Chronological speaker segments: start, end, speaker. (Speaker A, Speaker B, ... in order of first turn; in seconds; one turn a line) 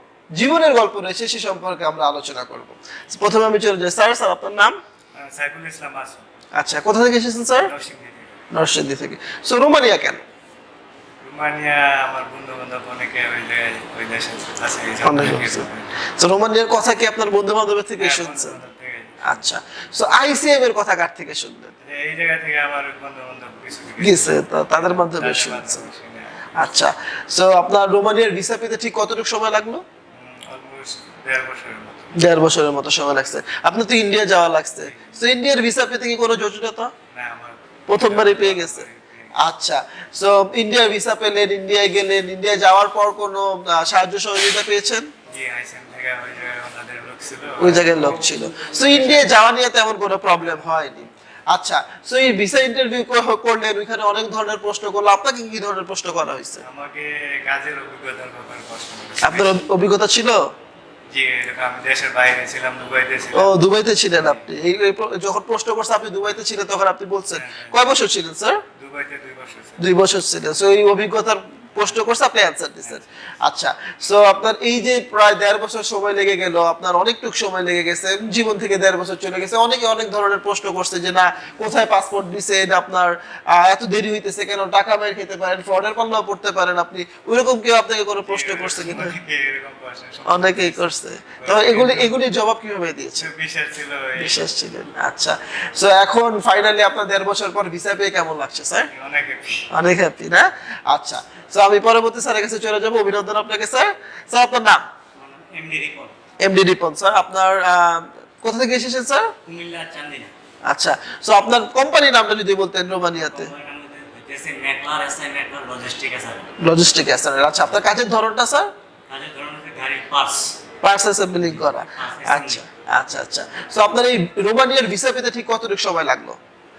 Speaker A: 0.4-4.8
Speaker B: 5.2-6.2
Speaker A: 6.6-7.7
Speaker B: 7.6-8.3
Speaker A: 8.5-10.2
Speaker B: 11.2-15.9
Speaker A: 15.0-18.6
Speaker B: 18.0-19.1
Speaker A: 19.2-21.7
Speaker B: 21.9-26.3
Speaker A: 24.0-25.9
Speaker A: 26.6-29.8
Speaker B: 30.2-32.0
Speaker A: 32.1-36.9
Speaker B: 37.1-39.3
Speaker A: 37.9-38.9
Speaker A: 39.4-45.1
Speaker B: 45.3-49.3
Speaker A: 47.6-56.6
Speaker B: 56.7-59.6
Speaker A: 59.2-60.4
Speaker B: 61.1-63.5
Speaker A: 63.3-68.6
Speaker B: 64.2-64.4
Speaker B: 67.4-67.8
Speaker B: 68.8-69.9
Speaker A: 69.8-89.2
Speaker B: 88.3-90.9
Speaker A: 90.3-93.3
Speaker B: 91.4-92.1
Speaker B: 93.2-94.5
Speaker A: 94.2-98.9
Speaker B: 98.9-99.7
Speaker A: 99.7-104.8
Speaker B: 105.2-106.2
Speaker A: 106.4-109.3
Speaker B: 109.5-110.3
Speaker A: 110.7-113.5
Speaker B: 113.2-116.5
Speaker A: 116.6-118.7
Speaker B: 119.1-120.5
Speaker A: 120.8-126.4
Speaker B: 121.4-122.6